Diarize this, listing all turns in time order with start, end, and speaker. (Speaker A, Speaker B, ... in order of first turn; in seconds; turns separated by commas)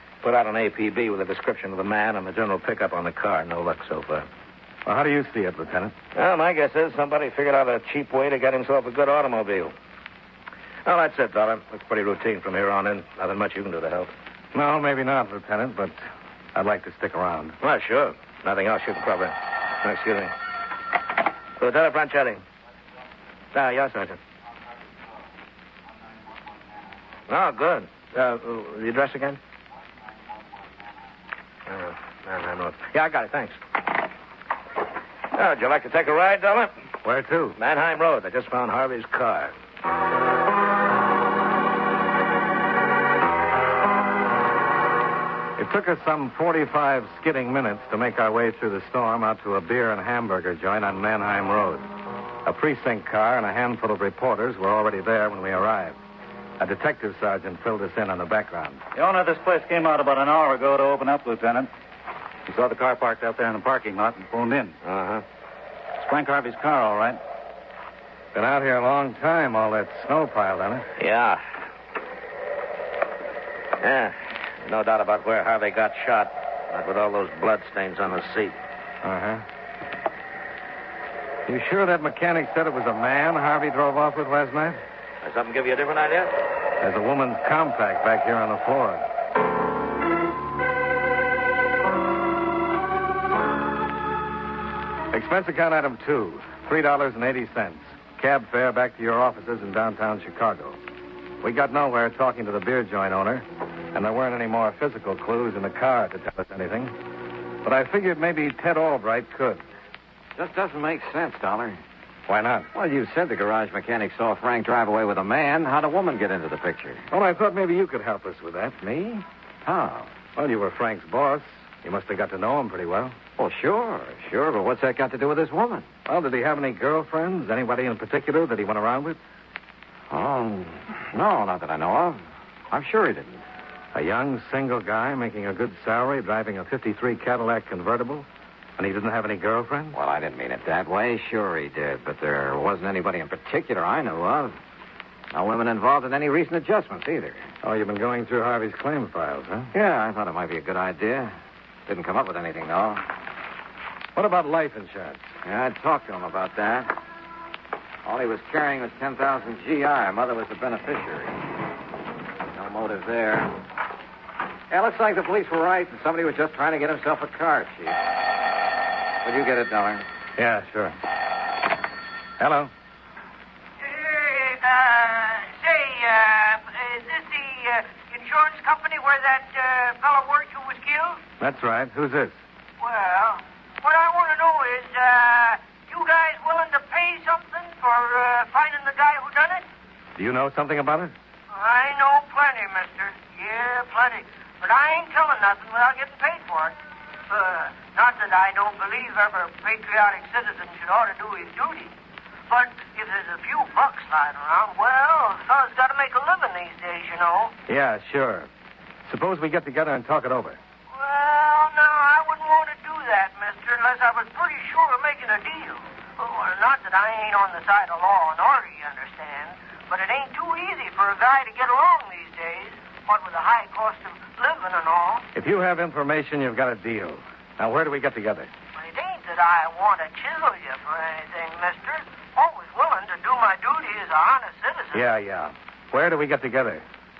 Speaker A: 0.2-4.3, Speaker B: 4.9-6.0, Speaker A: 6.2-9.7, Speaker A: 10.8-14.1, Speaker B: 14.5-16.0, Speaker B: 16.6-17.6, Speaker A: 17.6-20.3, Speaker A: 21.6-22.4, Speaker A: 23.5-24.2, Speaker A: 27.3-29.4, Speaker A: 31.7-33.8, Speaker A: 35.3-36.7, Speaker B: 37.0-37.6, Speaker A: 37.6-39.5, Speaker B: 45.6-51.9, Speaker B: 52.5-56.0, Speaker B: 56.6-58.8, Speaker C: 59.0-61.7, Speaker C: 62.5-64.7, Speaker A: 64.8-65.2, Speaker C: 66.0-67.2, Speaker B: 68.3-70.9, Speaker A: 71.0-71.4, Speaker A: 73.8-78.6, Speaker B: 79.0-79.5, Speaker B: 81.5-84.8, Speaker A: 85.2-86.4, Speaker B: 86.8-89.0, Speaker B: 95.1-100.8, Speaker B: 101.4-107.0, Speaker B: 107.6-109.6, Speaker D: 110.4-111.8, Speaker B: 112.3-112.7, Speaker D: 112.7-117.1, Speaker B: 117.1-118.8, Speaker D: 118.8-120.1, Speaker B: 120.4-123.2, Speaker D: 123.4-125.9, Speaker B: 126.1-129.2, Speaker D: 130.1-133.4, Speaker B: 133.9-138.3, Speaker B: 138.8-139.9, Speaker D: 139.9-144.6, Speaker D: 145.3-147.4, Speaker B: 147.6-149.7, Speaker D: 149.7-151.3, Speaker D: 151.9-153.1, Speaker B: 154.2-155.3, Speaker D: 155.4-156.9, Speaker D: 158.1-161.4, Speaker D: 162.6-163.5, Speaker D: 164.7-168.0, Speaker D: 169.2-170.0, Speaker B: 170.4-171.0, Speaker B: 172.4-172.7, Speaker E: 173.8-181.2, Speaker B: 181.4-182.4, Speaker E: 182.8-189.7, Speaker B: 190.2-191.2, Speaker E: 191.5-196.8, Speaker E: 197.3-201.9, Speaker E: 202.5-207.5, Speaker B: 207.7-208.5, Speaker B: 209.1-210.6, Speaker E: 210.9-225.3, Speaker B: 225.3-228.5, Speaker E: 228.8-235.1, Speaker B: 234.9-236.8